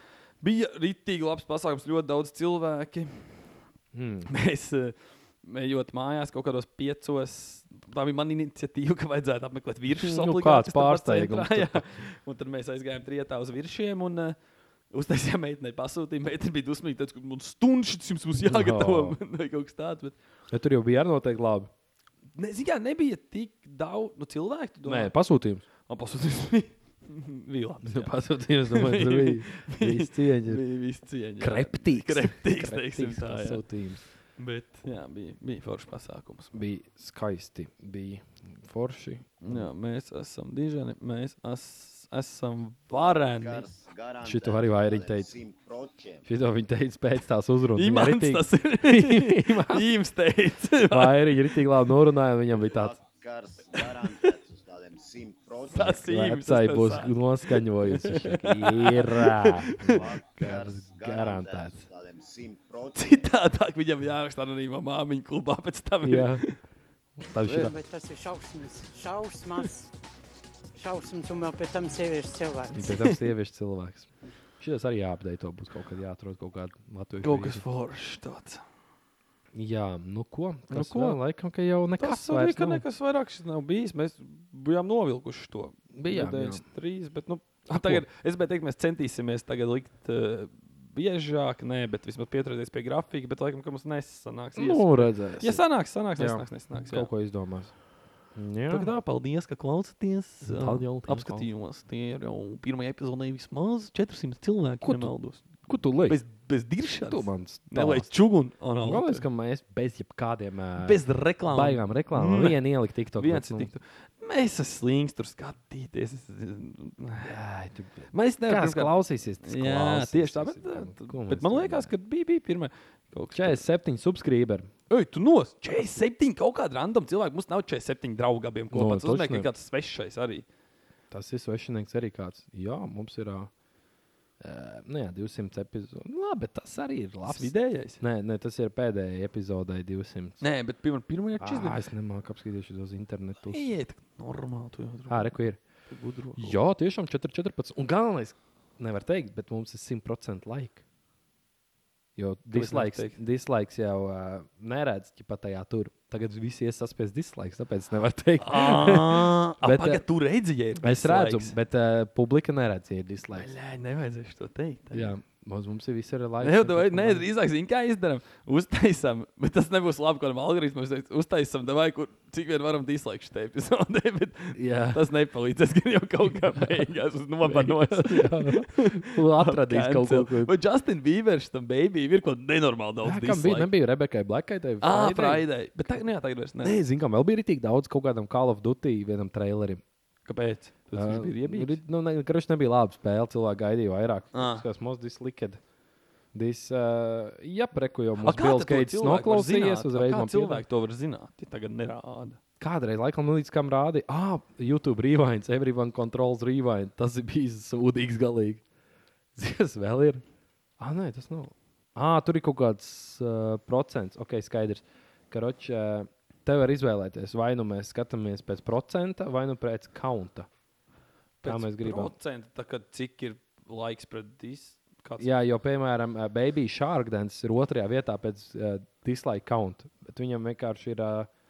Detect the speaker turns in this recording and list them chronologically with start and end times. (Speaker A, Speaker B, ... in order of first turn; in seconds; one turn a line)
Speaker A: 0.4-3.5
Speaker B: 3.9-4.3
Speaker A: 4.3-14.4
Speaker B: 10.0-11.8
Speaker A: 14.9-20.2
Speaker B: 18.4-19.2
Speaker B: 20.5-21.7
Speaker A: 22.4-25.1
Speaker B: 24.8-25.6
Speaker A: 25.9-28.1
Speaker B: 27.8-30.6
Speaker A: 28.7-33.6
Speaker B: 31.4-34.0
Speaker A: 34.4-36.5
Speaker B: 36.5-39.7
Speaker A: 39.4-43.7
Speaker C: 42.9-46.2
Speaker B: 44.2-45.3
Speaker B: 46.2-49.9
Speaker A: 47.8-51.6
Speaker B: 50.9-53.0
Speaker C: 52.7-56.0
Speaker A: 55.7-60.0
Speaker B: 55.8-61.8
Speaker C: 59.8-63.2
Speaker A: 62.9-66.6
Speaker B: 66.0-66.5
Speaker B: 67.2-67.8
Speaker A: 67.4-67.7
Speaker D: 67.5-69.9
Speaker D: 70.8-72.9
Speaker B: 72.7-77.6
Speaker A: 72.9-73.2
Speaker A: 77.2-78.6
Speaker B: 79.5-82.8
Speaker A: 80.7-81.2
Speaker A: 82.0-97.1
Speaker B: 85.9-86.6
Speaker B: 87.7-88.0
Speaker B: 94.6-95.6
Speaker B: 96.2-97.7
Speaker B: 98.3-98.9
Speaker A: 98.7-109.2
Speaker B: 100.5-101.5
Speaker B: 104.8-105.1
Speaker B: 105.6-106.2
Speaker B: 107.0-108.1
Speaker B: 108.8-113.7
Speaker A: 110.8-112.6
Speaker A: 113.2-117.3
Speaker B: 117.2-121.9
Speaker A: 118.1-123.6
Speaker B: 123.3-124.7
Speaker A: 124.9-130.4
Speaker B: 128.7-129.5
Speaker B: 131.1-133.5
Speaker B: 134.4-140.4
Speaker A: 137.3-138.0
Speaker A: 140.4-141.8
Speaker B: 141.4-143.7
Speaker A: 143.5-145.4
Speaker B: 145.1-145.6
Speaker A: 145.9-146.6
Speaker B: 146.4-150.8
Speaker B: 152.2-160.0
Speaker A: 152.5-153.2
Speaker A: 158.4-161.6
Speaker B: 160.8-163.5
Speaker A: 163.4-165.1
Speaker B: 164.9-167.3
Speaker A: 166.4-183.7
Speaker B: 174.5-175.0
Speaker B: 176.6-176.8
Speaker B: 177.4-180.5
Speaker B: 183.0-186.0
Speaker A: 184.8-186.8
Speaker B: 186.6-189.8
Speaker A: 190.3-191.8
Speaker B: 190.9-195.6
Speaker A: 194.3-194.7
Speaker B: 196.3-200.6
Speaker A: 198.2-202.4
Speaker B: 202.6-208.6
Speaker B: 209.3-210.2
Speaker B: 210.8-220.5
Speaker A: 221.4-225.3
Speaker B: 221.4-222.1
Speaker B: 225.2-231.3